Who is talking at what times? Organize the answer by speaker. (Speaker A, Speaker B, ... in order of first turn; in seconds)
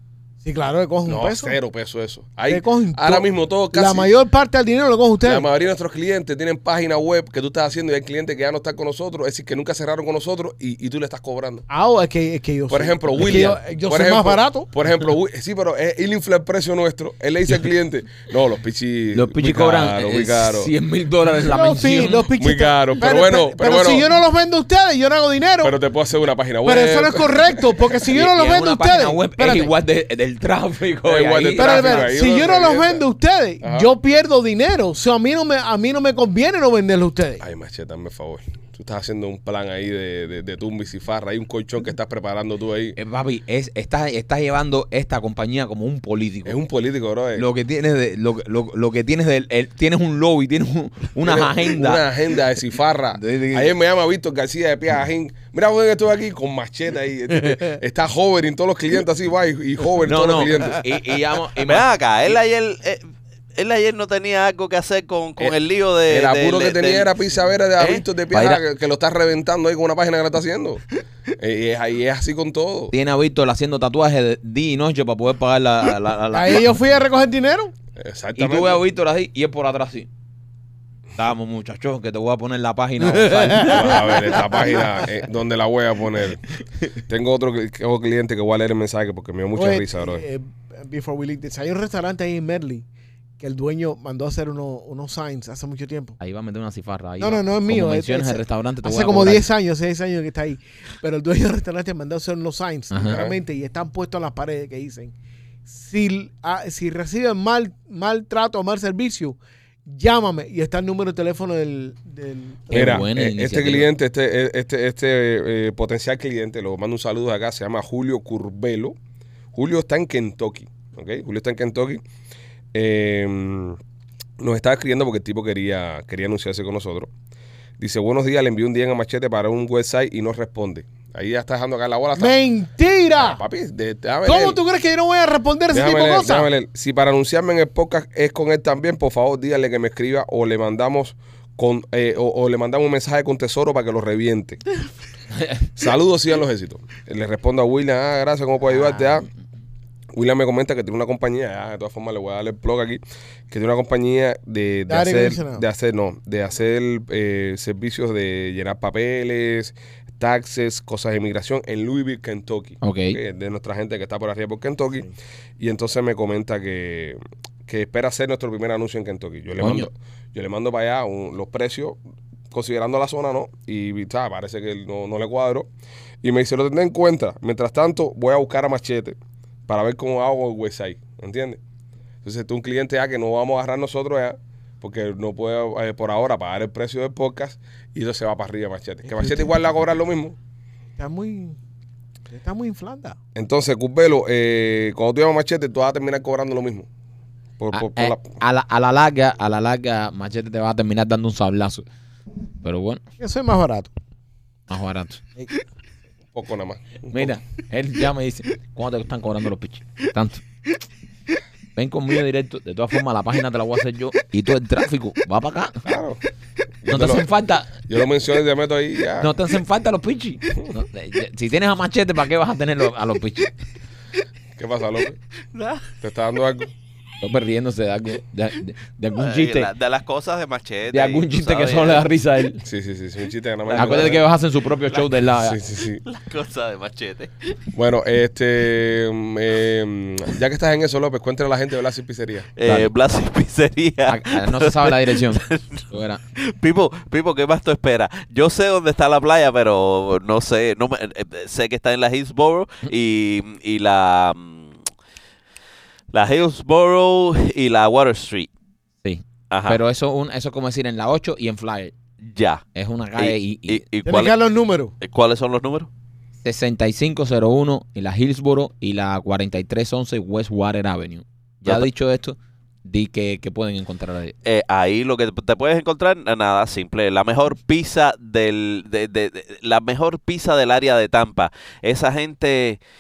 Speaker A: 0.4-1.6, 2.5-5.5, 11.7-14.7, 21.4-25.7, 26.6-29.7, 31.6-37.4, 76.3-77.7, 83.1-84.1, 89.6-92.9, 93.4-96.2, 97.2-105.1, 105.7-113.0, 132.2-133.4, 134.2-136.5, 154.9-155.6, 189.1-189.5, 191.0-191.6, 192.3-193.2, 203.2-203.9, 264.1-264.9
Speaker B: 1.1-4.1, 5.2-11.7, 12.7-20.7, 22.4-24.1, 25.6-27.9, 31.1-33.0, 33.6-33.9, 37.4-43.0, 46.5-47.5, 51.2-61.0, 66.1-70.8, 71.4-72.9, 78.0-78.8, 83.6-86.4, 87.0-90.3, 103.1-103.3, 112.7-119.0, 119.5-122.0, 122.7-123.8, 124.4-127.1, 127.8-132.3, 133.2-134.6, 135.7-144.6, 145.8-149.3, 150.1-172.0, 172.5-175.7, 176.2-179.2, 179.7-181.6, 182.2-190.4, 193.3-196.9, 197.6-198.3, 206.3-207.3, 215.8-216.2, 216.8-217.3, 217.8-219.3, 224.6-225.2, 226.0-226.7, 232.6-234.3, 235.4-236.0, 237.7-242.5
Speaker C: 19.1-22.3, 28.1-32.1, 43.0-46.6, 47.4-52.0, 53.1-53.7, 60.1-62.4, 67.8-68.6, 72.9-76.8, 78.4-80.1, 81.2-85.1, 96.2-99.5, 102.9-103.2, 112.7-113.9, 145.3-145.7, 148.7-149.3, 162.8-163.2, 169.6-169.9, 197.7-201.9, 202.6-203.0, 204.7-205.2, 207.1-210.4, 211.8-215.8, 216.9-217.7, 219.2-223.5, 227.2-229.7, 230.9-232.6, 233.8-235.6, 242.6-242.9, 244.1-246.2, 259.0-261.9, 262.8-263.8, 266.4-274.4
Speaker D: 61.6-63.0, 63.5-67.1, 225.5-225.8, 229.2-232.1, 233.7-234.2, 236.1-237.6, 242.6-254.8, 256.1-258.5, 259.5-259.8, 262.2-262.6, 263.2-264.4, 265.0-265.9, 274.4-282.8